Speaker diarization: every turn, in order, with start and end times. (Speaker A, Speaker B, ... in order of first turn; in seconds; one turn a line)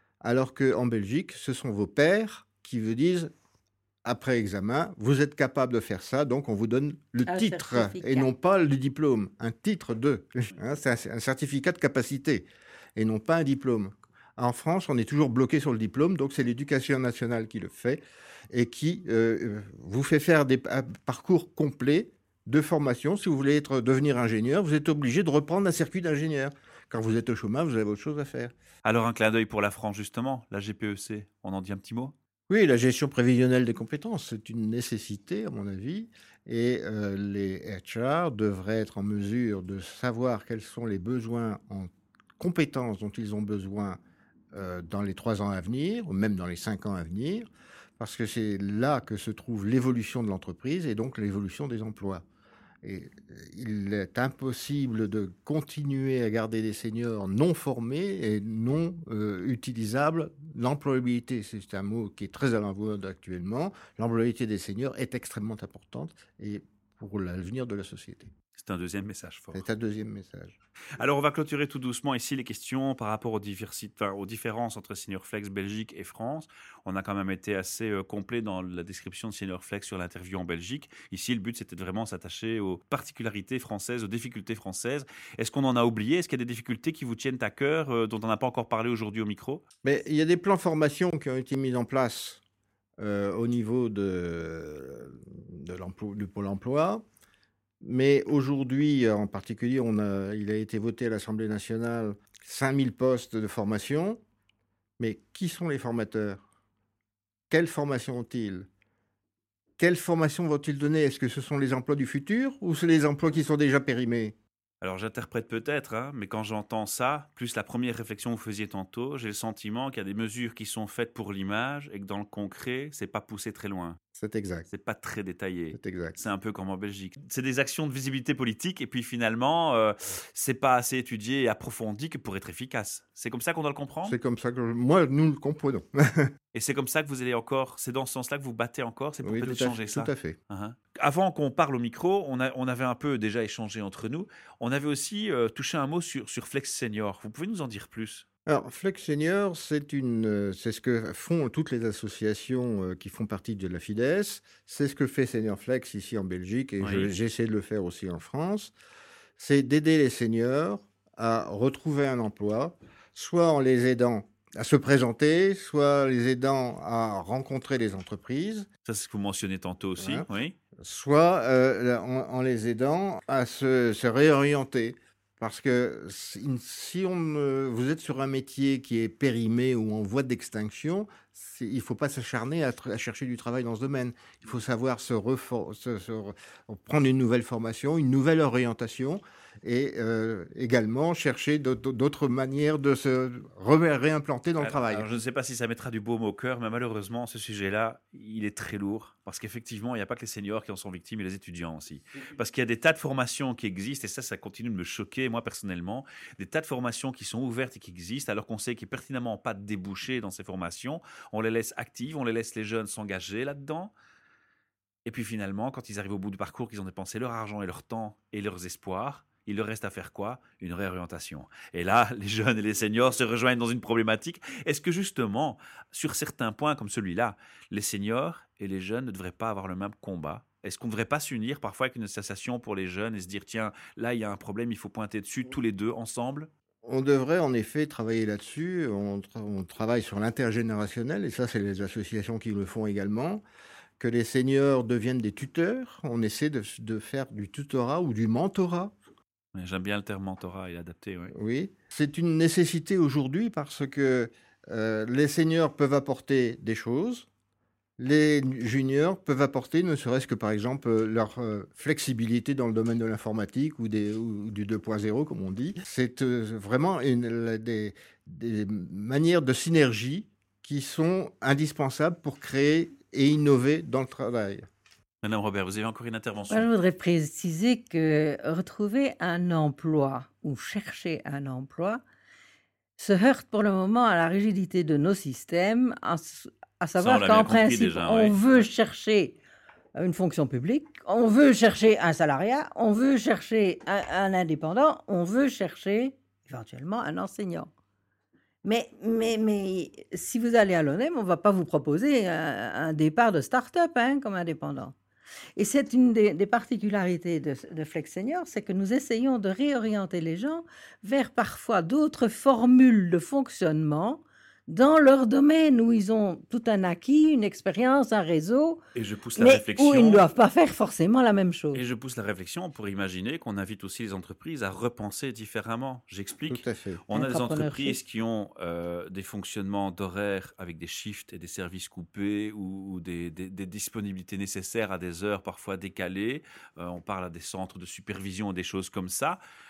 Speaker A: 0.2-3.3
Speaker A: 4.0-28.5
Speaker B: 7.3-8.3
Speaker C: 28.8-32.1
Speaker A: 32.5-44.0
Speaker A: 44.5-47.5
Speaker A: 48.0-52.2
Speaker A: 52.8-68.3
Speaker C: 68.5-69.6
Speaker A: 69.5-70.5
Speaker C: 71.0-89.6
Speaker A: 89.8-92.4
Speaker A: 93.0-97.0
Speaker A: 97.8-104.2
Speaker A: 105.0-106.4
Speaker A: 107.5-108.7
Speaker A: 109.8-114.3
Speaker C: 114.8-124.0
Speaker A: 124.1-124.7
Speaker C: 124.7-134.2
Speaker A: 125.7-126.2
Speaker A: 134.0-136.3
Speaker C: 136.5-148.2
Speaker A: 139.2-140.4
Speaker A: 148.4-158.7
Speaker C: 156.8-157.1
Speaker A: 159.4-168.7
Speaker C: 168.8-170.5
Speaker A: 170.0-170.2
Speaker A: 170.8-195.1
Speaker C: 194.6-213.9
Speaker C: 215.0-236.5
Speaker A: 236.8-243.4
Speaker A: 244.0-248.9
Speaker C: 249.5-251.3
Speaker A: 251.3-257.3
Speaker A: 258.0-274.6
Speaker C: 275.2-276.7
Speaker B: 276.5-282.0
Speaker B: 283.0-289.4
Speaker C: 287.0-288.4
Speaker B: 289.9-297.7
Speaker B: 298.6-304.9
Speaker B: 305.6-318.8
Speaker C: 318.9-320.2
Speaker B: 319.4-321.8
Speaker C: 321.7-339.4
Speaker A: 326.5-327.0
Speaker B: 327.1-328.0